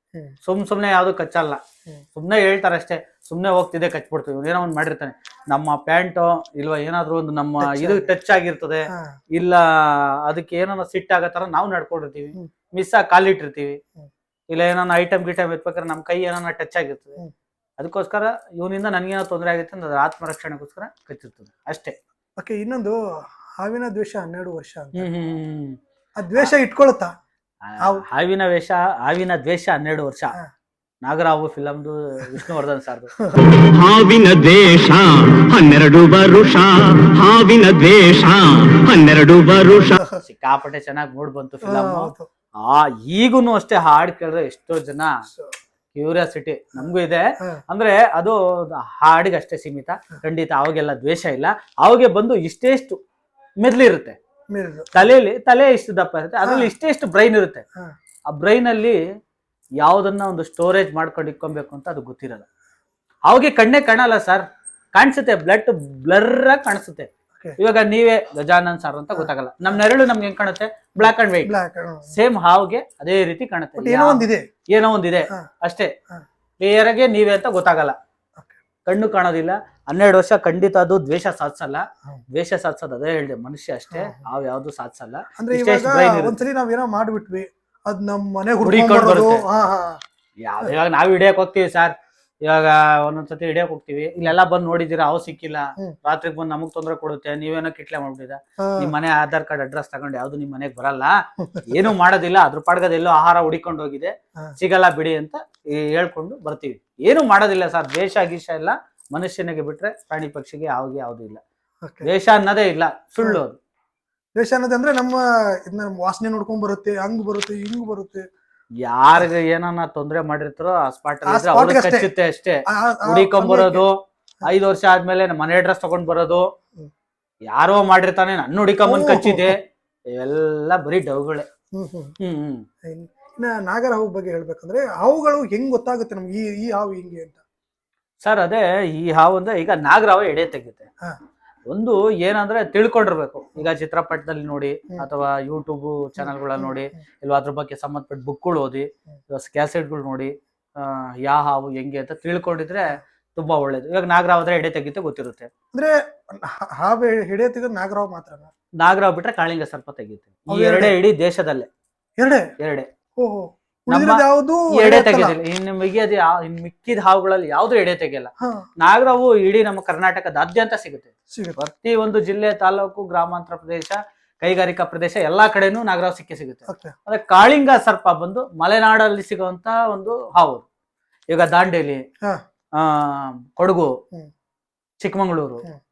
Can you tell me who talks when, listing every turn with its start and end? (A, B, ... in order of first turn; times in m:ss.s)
0:00.4-0:01.6 A
0:02.1-0:13.8 A
0:07.6-0:08.1 B
0:08.9-0:09.2 B
0:14.5-0:17.2 A
0:17.8-0:21.9 A
0:22.4-0:25.1 B
0:24.9-0:25.8 A
0:26.2-0:27.1 B
0:27.6-0:30.4 A
0:31.0-0:33.1 A
0:33.4-0:40.0 C
0:39.9-0:40.2 B
0:40.2-0:45.1 A
0:41.6-0:42.3 B
0:45.9-0:53.0 A
0:46.8-0:47.6 B
0:53.6-0:54.2 A
0:54.5-0:55.1 B
0:54.9-0:57.6 A
0:56.4-0:56.7 B
0:58.3-0:59.0 A
0:59.8-1:02.4 A
1:03.3-1:11.5 A
1:11.0-1:12.2 B
1:12.1-1:15.9 A
1:13.8-1:14.5 B
1:16.6-1:17.9 A
1:18.8-1:26.3 A
1:23.9-1:24.2 B
1:25.4-1:30.0 B
1:28.6-1:29.4 A
1:30.4-1:51.4 A
1:38.6-1:38.9 B
1:41.4-1:41.8 B
1:52.0-1:53.6 A
1:54.4-1:58.2 B
1:58.8-2:06.5 A
2:01.2-2:02.1 B
2:02.7-2:03.9 B
2:07.5-2:09.6 A
2:08.8-2:09.6 B
2:10.1-2:11.4 A
2:11.7-2:12.1 B
2:12.2-2:12.6 A
2:12.8-2:17.4 B
2:18.2-2:20.9 A
2:21.7-2:35.5 A
2:26.2-2:26.9 B
2:35.7-2:38.5 B
2:38.8-2:41.7 A
2:40.5-2:41.0 B
2:42.2-2:42.5 B
2:42.6-2:42.9 A
2:43.2-2:45.4 B
2:43.9-3:00.6 A
2:48.4-2:48.7 B
2:51.3-2:51.6 B
2:56.7-2:57.0 B
3:01.3-3:02.0 A
3:02.8-3:04.0 A
3:05.0-3:05.6 A